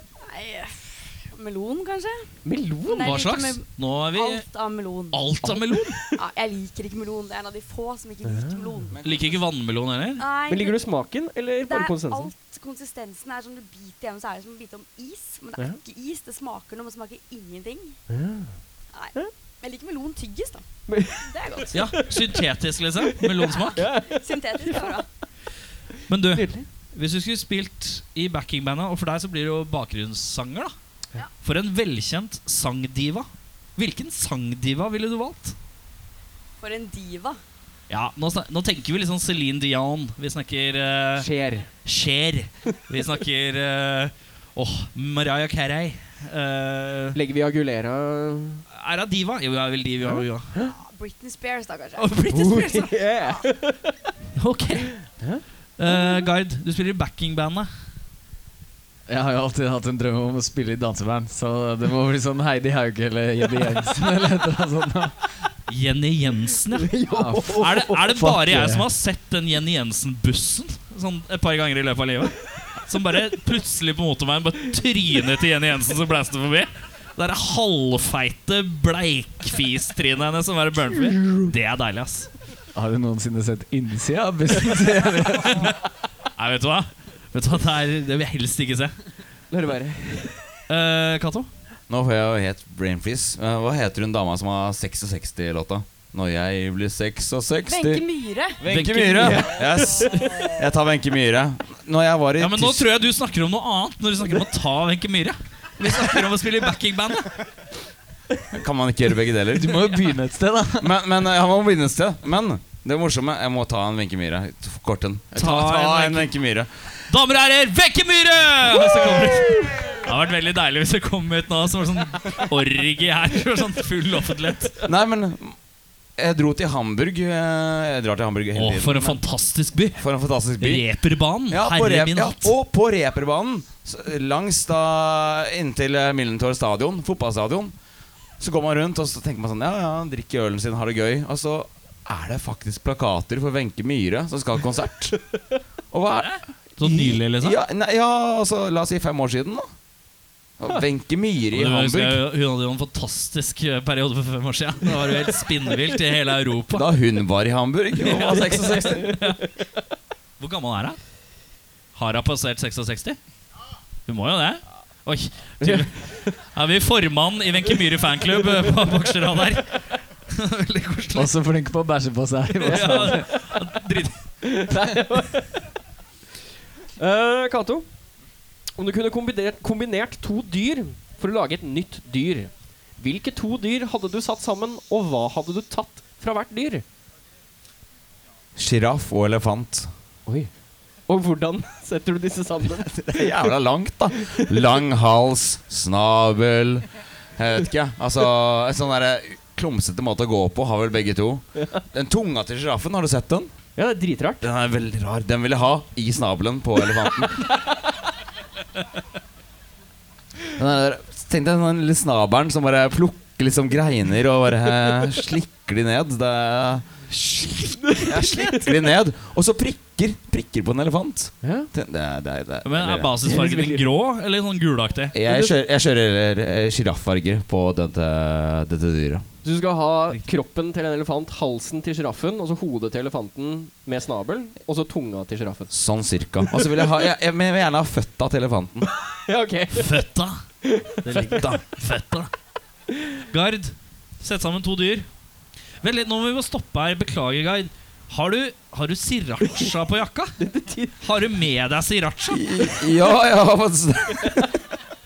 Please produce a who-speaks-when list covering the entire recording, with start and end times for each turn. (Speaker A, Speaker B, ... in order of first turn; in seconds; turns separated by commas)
Speaker A: 0.3-2.2, Speaker B: 2.5-3.1, Speaker A: 2.9-9.0, Speaker C: 3.0-4.5, Speaker C: 5.1-6.1, Speaker B: 8.3-8.6, Speaker D: 8.9-9.3, Speaker C: 9.0-10.2, Speaker A: 10.2-10.8, Speaker B: 10.5-12.3, Speaker A: 11.6-18.0, Speaker B: 18.1-18.6, Speaker A: 18.9-20.6, Speaker B: 20.9-22.4, Speaker A: 21.2-21.8, Speaker C: 21.7-23.9, Speaker B: 23.0-25.0, Speaker A: 23.5-25.1, Speaker C: 26.1-30.7, Speaker B: 26.3-26.7, Speaker C: 31.4-35.6, Speaker A: 36.6-37.4, Speaker C: 37.9-41.3, Speaker B: 41.2-41.7, Speaker C: 41.9-47.2, Speaker B: 47.1-48.6, Speaker C: 48.7-50.5, Speaker B: 50.1-50.8, Speaker A: 50.7-52.1, Speaker C: 52.0-52.9, Speaker B: 52.3-54.0, Speaker C: 54.4-55.1, Speaker B: 55.1-55.4, Speaker C: 55.8-57.7, Speaker E: 59.1-65.3, Speaker C: 65.7-67.0, Speaker B: 66.7-68.2, Speaker E: 67.1-68.9, Speaker C: 67.5-82.3, Speaker B: 81.2-81.5, Speaker E: 82.8-85.7, Speaker C: 85.5-85.8, Speaker C: 86.4-88.9, Speaker B: 89.5-90.4, Speaker C: 90.7-91.5, Speaker D: 91.9-98.1, Speaker A: 97.7-98.6, Speaker D: 98.6-102.8, Speaker C: 98.6-99.5, Speaker B: 99.2-100.6, Speaker C: 102.4-107.5, Speaker D: 108.5-110.1, Speaker E: 109.5-111.0, Speaker D: 110.8-116.7, Speaker C: 115.3-116.3, Speaker C: 117.1-124.9, Speaker D: 124.8-125.6, Speaker D: 126.2-129.2, Speaker C: 128.6-130.0, Speaker D: 130.0-130.8, Speaker C: 130.6-132.5, Speaker D: 131.5-137.7, Speaker D: 138.4-145.2, Speaker D: 145.9-149.7, Speaker C: 146.2-147.6, Speaker D: 150.6-152.2, Speaker C: 151.5-156.9, Speaker D: 156.7-159.2, Speaker C: 158.0-159.4, Speaker B: 158.2-159.2, Speaker C: 160.4-161.0, Speaker C: 161.9-163.2, Speaker C: 164.1-171.3, Speaker B: 165.6-166.3, Speaker E: 171.2-173.3, Speaker C: 172.7-174.1, Speaker B: 172.7-173.6, Speaker B: 174.4-175.6, Speaker B: 177.0-177.9, Speaker B: 178.8-186.8, Speaker D: 188.6-189.9, Speaker B: 191.1-193.5, Speaker D: 192.8-203.5, Speaker B: 203.8-204.5, Speaker D: 204.4-207.6, Speaker D: 210.5-217.1, Speaker B: 217.7-218.7, Speaker D: 218.0-223.1, Speaker B: 221.4-221.7, Speaker C: 222.6-225.2, Speaker B: 223.2-223.9, Speaker D: 225.1-229.2, Speaker B: 225.2-225.5, Speaker B: 229.4-235.7, Speaker D: 235.7-238.9, Speaker B: 239.0-239.9, Speaker C: 239.7-240.4, Speaker B: 240.6-241.5, Speaker C: 241.1-242.3, Speaker C: 243.3-245.1, Speaker C: 245.8-250.4, Speaker B: 250.4-251.1, Speaker C: 251.0-252.4, Speaker D: 252.3-254.5